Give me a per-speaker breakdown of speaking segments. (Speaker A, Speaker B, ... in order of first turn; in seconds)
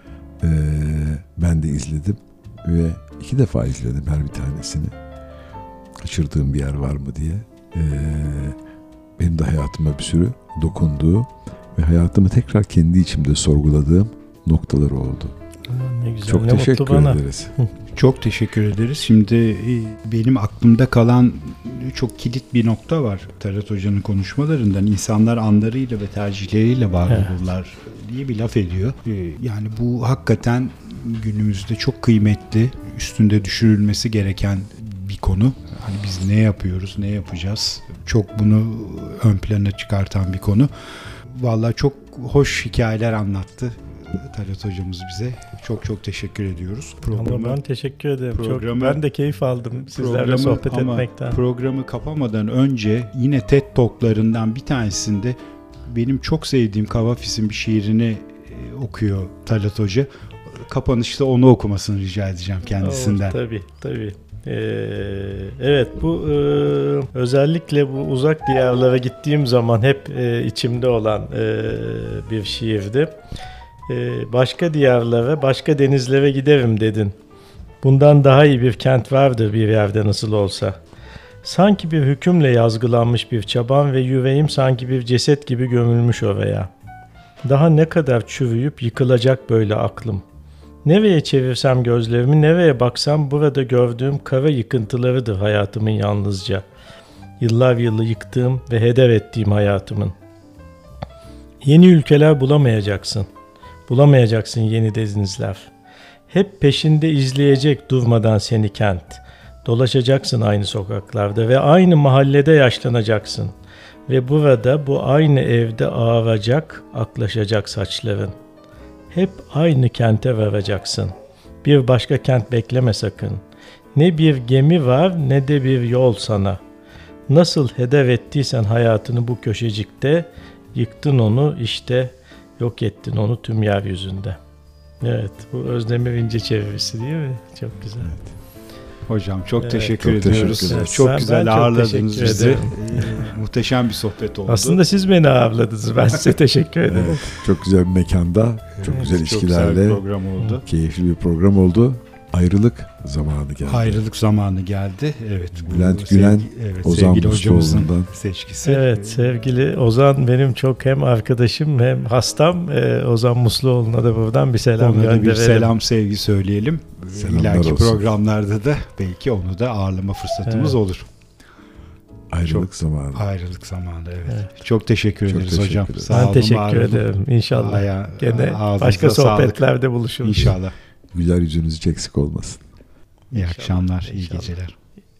Speaker A: 0.4-4.9, 6.0-8.6, 9.2-15.3, 16.2-17.5, 140.0-141.0, 146.8-150.0, 150.6-154.0, 155.6-158.1, 167.1-168.1, 172.3-173.3, 175.3-176.2, 181.1-182.6
Speaker B: 15.7-17.7, 47.0-51.4, 62.8-73.1, 73.9-77.1, 77.8-80.8, 81.4-86.7, 87.4-90.2, 90.8-96.6, 97.4-100.1, 101.6-103.3, 103.9-105.7, 106.3-113.5, 114.1-118.3, 119.1-123.4, 123.9-126.6, 127.3-134.4, 135.0-138.1, 139.6-143.2, 144.5-147.4, 158.6-165.7, 170.5-170.8, 176.1-180.6, 183.3-184.5
Speaker C: 17.9-40.7, 41.3-47.6, 48.3-49.0, 49.8-63.4, 139.1-144.8, 148.8-150.6, 153.6-159.4, 164.8-171.1, 172.4-179.7, 180.2-180.7, 183.3-184.7